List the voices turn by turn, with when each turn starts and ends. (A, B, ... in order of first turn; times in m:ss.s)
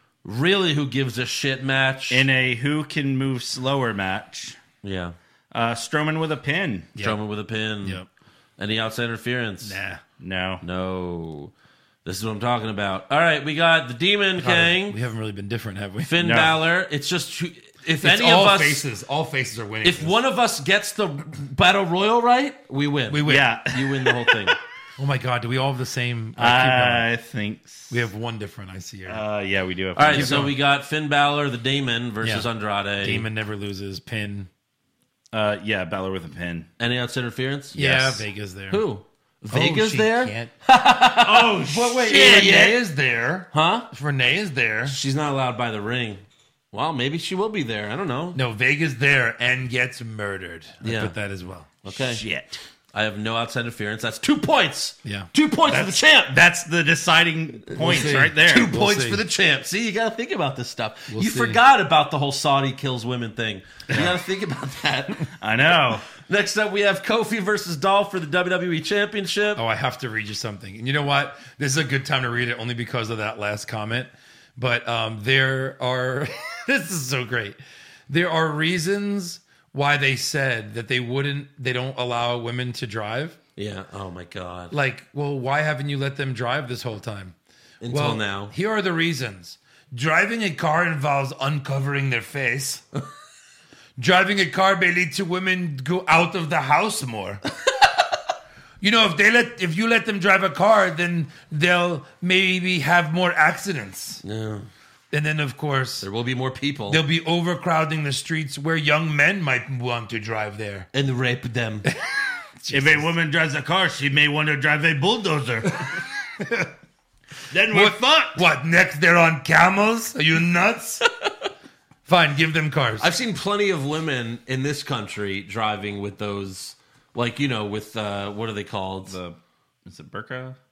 0:00.2-0:02.2 A
0:02.1-0:04.6 B
0:04.8-0:05.2 A
0:05.5-0:06.9 B
0:07.0-0:08.0 A
0:08.6-0:09.8 A
0:09.6-0:10.0 C
0:10.2-0:10.6 B
0:10.6-0:11.5 A
0:12.0-0:15.0 A
0:14.4-0:16.2 C
0:16.0-0:18.8 A
0:16.2-0:16.6 B
0:18.0-0:20.2 C
0:19.8-0:24.6 A
0:23.1-0:23.5 C
0:23.2-0:24.5 B
0:25.0-0:27.1 C
0:26.4-0:28.0 B
0:27.9-0:29.2 C
0:29.0-0:30.4 B
0:30.0-0:33.3 A
0:30.0-0:30.5 C
0:32.2-0:32.5 C
0:33.0-0:34.5 C
0:35.3-0:36.7 B
0:36.8-0:38.0 A
0:37.7-0:38.8 C
0:37.8-0:38.2 B
0:38.7-0:42.8 A
0:39.5-0:40.5 C
0:41.2-0:42.7 B
0:41.6-0:45.0 C
0:43.5-0:43.9 A
0:44.9-0:46.2 A
0:46.7-0:48.4 A
0:48.3-0:51.7 C
0:50.8-0:51.1 A
0:51.8-0:52.2 A
0:51.9-0:52.6 B
0:52.9-0:56.4 A
0:55.6-0:58.7 B
0:57.8-0:59.2 C
0:57.8-1:05.3 A
1:01.1-1:01.6 C
1:05.4-1:06.0 B
1:06.2-1:09.6 A
1:09.6-1:17.6 C
1:18.1-1:23.4 C
1:23.6-1:24.7 A
1:24.7-1:27.4 C
1:27.8-1:28.5 A
1:27.9-1:32.8 C
1:34.0-1:37.4 C
1:38.8-1:44.2 C
1:44.2-1:44.7 A
1:45.1-1:46.0 C
1:46.0-1:47.0 A
1:46.9-1:50.9 C
1:50.9-1:51.9 A
1:51.8-1:53.1 C
1:52.7-1:56.0 B
1:56.4-1:56.7 C
1:57.5-1:58.4 B
1:57.7-2:01.0 C
2:02.0-2:03.1 C
2:03.0-2:09.2 A
2:09.0-2:10.6 B